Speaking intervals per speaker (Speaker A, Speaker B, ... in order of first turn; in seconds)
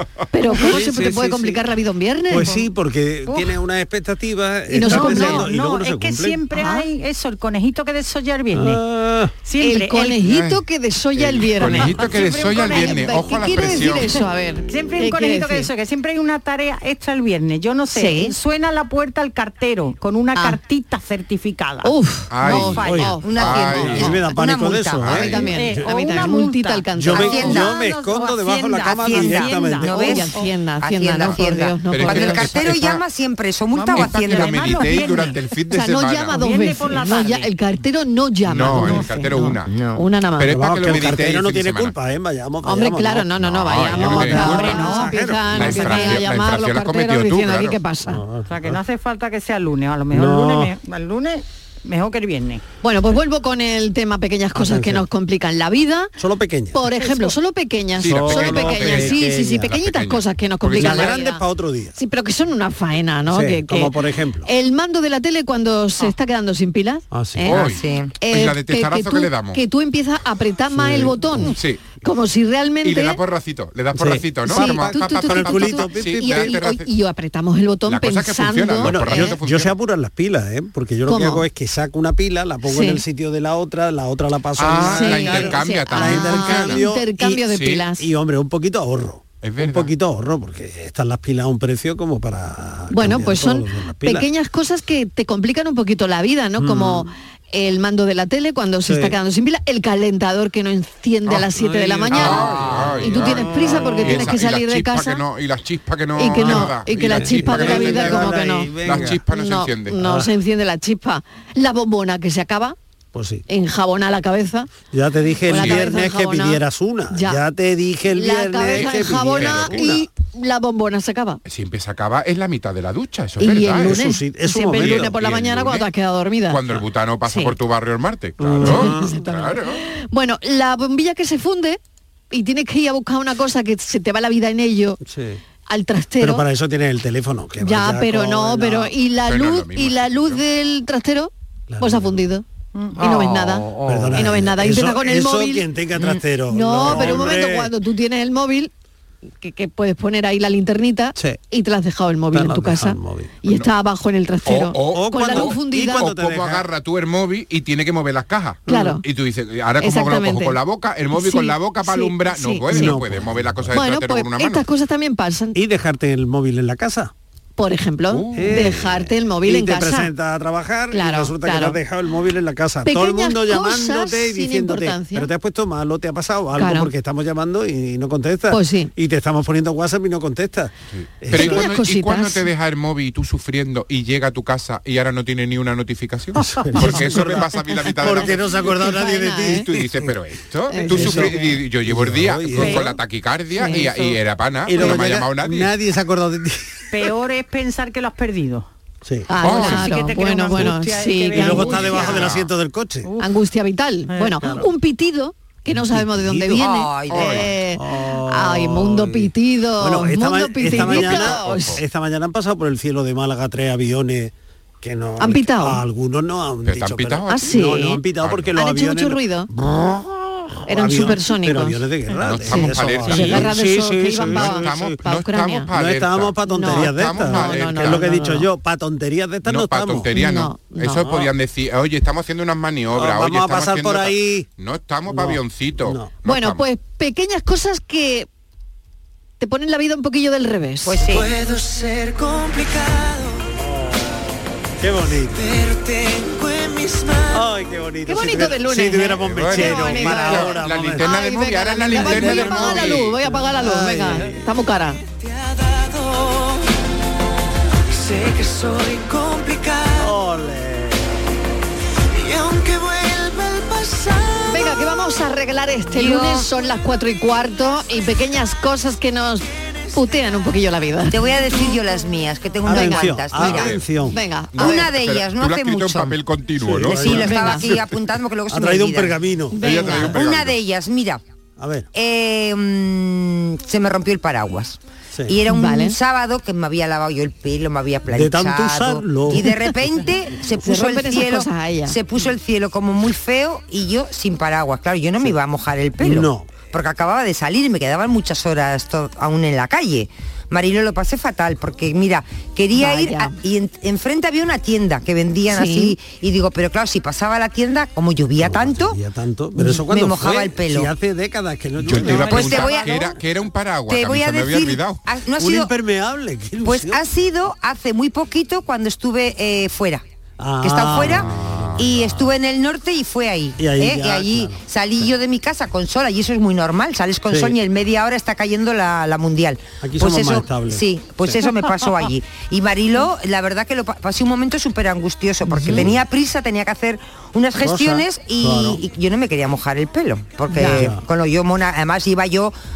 Speaker A: 0.3-2.6, 4.7-5.5, 6.5-6.9, 9.6-15.7, 17.9-18.4, 21.8-23.9, 25.1-32.6, 35.7-40.6, 42.6-48.2, 52.8-56.1, 56.7-61.4, 62.0-63.9, 64.4-67.7, 68.2-73.2, 74.5-79.4, 81.1-81.5, 82.7-83.0, 84.8-88.1, 92.9-105.2, 106.2-112.8, 113.5-114.7, 115.5-116.6, 117.1-117.4, 118.1-121.4, 123.4-126.6, 127.3-127.5, 128.6-131.8, 132.3-135.0, 135.7-136.4, 137.6-142.4, 143.0-145.7, 146.5-148.7, 149.4-156.1, 158.7-159.0, 159.8-160.6, 161.1-163.0, 163.7-165.6, 167.6-170.1, 170.9-171.8, 172.8-175.3, 176.6-176.9, 178.5-178.9, 181.3-182.5, 186.8-187.3, 188.0-189.7, 190.7-191.6, 193.5-194.2, 199.3-202.2, 203.2-211.8, 215.2-215.8, 217.3-218.0, 218.5-219.5, 220.7-221.8, 222.4-225.7, 226.5-228.5, 230.1-231.1, 236.2-238.3, 239.4-241.1, 248.1-255.0, 264.5-271.2, 272.7-274.9, 277.0-277.7, 279.5-280.2, 285.5-286.0, 290.6-292.0, 302.8-303.4, 305.5-305.9, 340.5-340.9
Speaker B: 0.5-1.6, 2.3-6.5, 8.5-9.3, 22.8-25.8, 26.9-29.9, 40.5-46.0, 48.1-48.8, 50.1-50.7, 54.5-55.0, 56.2-57.0, 58.1-59.7, 60.8-62.0, 63.3-64.5, 67.1-67.6, 70.7-71.5, 74.0-76.6, 78.8-87.3, 88.0-94.3, 96.6-97.1, 98.9-99.2, 101.5-104.3, 106.3-109.2, 110.0-110.3, 113.1-113.4, 114.9-120.0, 123.5-125.2, 128.4-129.1, 135.0-135.4, 136.2-138.9, 141.7-142.2, 143.8-147.7, 152.3-153.4, 154.9-156.7, 162.7-163.8, 165.6-167.1, 168.3-181.7, 186.4-190.1, 190.9-192.9, 194.7-196.8, 200.5-200.8, 201.3-203.1, 204.4-204.7, 205.7-206.7, 207.7-220.1, 220.7-225.0, 225.7-230.1, 231.0-231.3, 232.9-234.5, 235.1-236.2, 243.6-245.6, 247.3-251.1, 251.9-254.4, 259.9-261.1, 272.6-274.2, 276.6-277.8, 278.5-280.1, 281.6-281.9, 288.1-289.5, 296.0-296.5, 308.4-312.7, 315.4-317.0, 320.4-321.9, 323.6-325.0, 327.3-327.6, 329.8-331.4, 335.5-336.0, 337.6-338.8, 340.6-341.0
Speaker C: 3.3-3.5, 4.8-8.8, 9.4-10.2, 12.0-13.0, 14.7-21.9, 22.4-23.1, 25.4-28.6, 29.1-30.5, 33.7-35.4, 36.3-37.5, 38.8-39.5, 44.4-45.2, 48.5-52.6, 196.9-198.7, 199.4-202.3, 204.1-204.4, 312.0-312.9
Speaker D: 10.2-10.6, 11.2-14.2, 22.3-24.2, 25.0-25.5, 31.8-32.9, 33.9-36.4, 38.5-39.8, 40.4-42.0, 43.4-44.6, 45.5-47.8, 58.0-61.2, 67.5-69.6, 71.4-71.8, 72.8-76.9, 77.9-79.8, 84.6-86.9, 87.4-87.9, 89.4-89.9, 102.1-110.0, 115.5-116.0, 118.7-120.0, 121.5-124.0, 124.7-125.9, 126.5-129.8, 139.2-140.4, 154.4-164.7, 168.1-168.8, 180.9-188.8, 189.5-195.8, 199.4-199.9, 201.9-202.5, 207.1-207.5, 210.7-211.8, 216.6-217.6, 218.2-218.6, 222.2-223.5, 224.2-228.1, 229.4-236.7, 249.2-253.2, 273.4-273.9, 274.5-277.3, 279.6-280.6, 311.8-315.0, 321.2-322.1
Speaker E: 23.2-25.2, 27.1-27.8, 28.8-34.8, 67.6-68.1, 206.6-207.5, 240.8-241.3, 265.9-266.5, 271.1-273.8, 274.6-276.2, 276.9-281.2, 281.9-309.0, 309.6-310.9, 312.2-313.2, 313.9-315.7, 316.6-320.0, 320.6-342.5
Speaker F: 241.6-242.9, 245.9-247.0, 258.3-259.8, 262.4-263.9